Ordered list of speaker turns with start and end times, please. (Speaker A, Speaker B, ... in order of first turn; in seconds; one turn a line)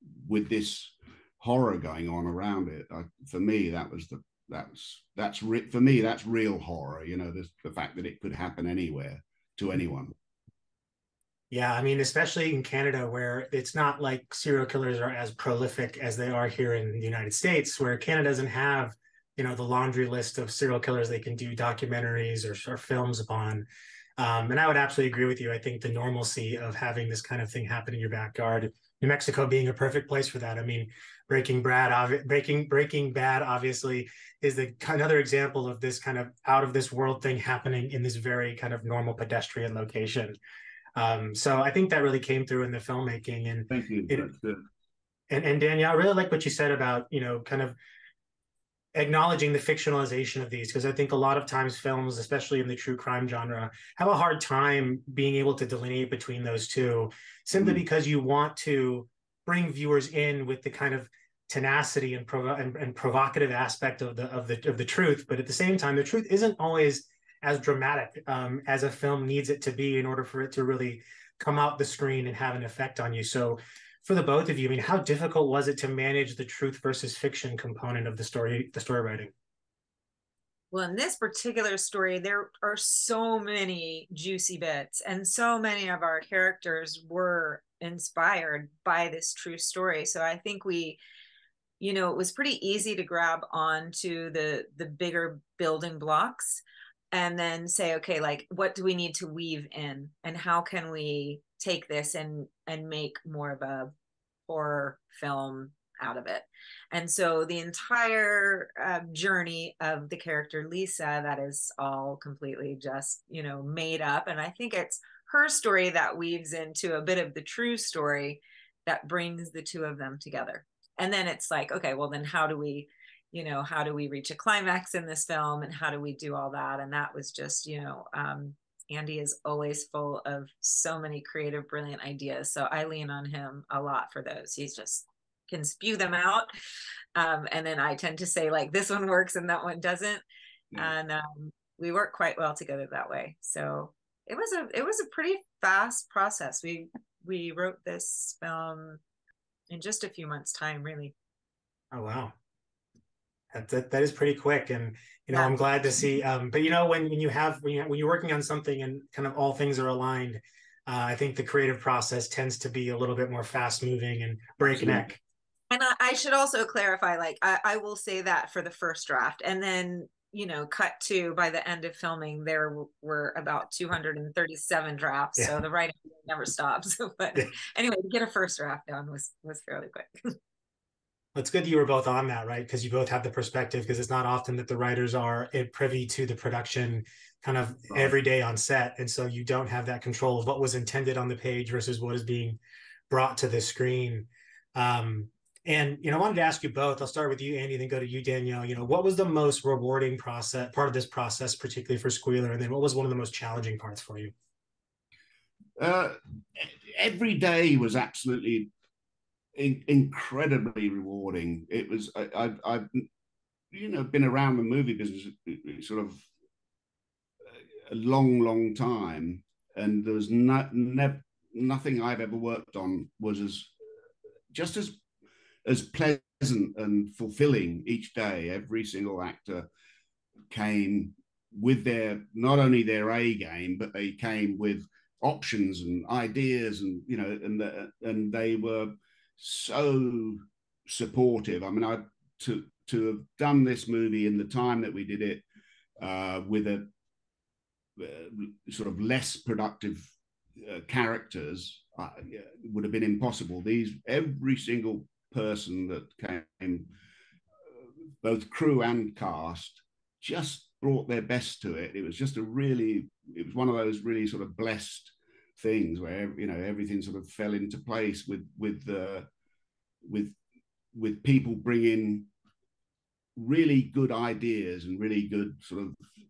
Speaker A: 0.2-10.1
Speaker B: 11.5-23.6
Speaker B: 24.2-40.4
Speaker B: 41.0-44.2
Speaker A: 43.7-44.6
Speaker B: 45.3-47.8
Speaker B: 48.9-79.3
Speaker C: 80.7-91.0
Speaker C: 91.8-103.9
Speaker C: 104.5-136.5
Speaker C: 137.2-140.2
Speaker C: 140.8-149.0
Speaker C: 149.7-151.1
Speaker B: 151.9-152.3
Speaker B: 153.5-165.2
Speaker C: 155.3-155.6
Speaker A: 164.6-165.1
Speaker C: 165.7-180.1
Speaker B: 181.3-192.6
Speaker B: 193.1-204.3
Speaker A: 205.8-208.7
Speaker A: 209.6-213.1
Speaker A: 213.7-216.2
Speaker A: 217.9-223.7
Speaker A: 224.5-225.0
Speaker A: 225.7-229.7
Speaker A: 230.5-245.4
Speaker A: 246.0-246.9
Speaker A: 248.0-256.9
Speaker A: 258.2-269.3
Speaker A: 270.0-270.4
Speaker A: 270.9-272.3
Speaker A: 273.4-276.0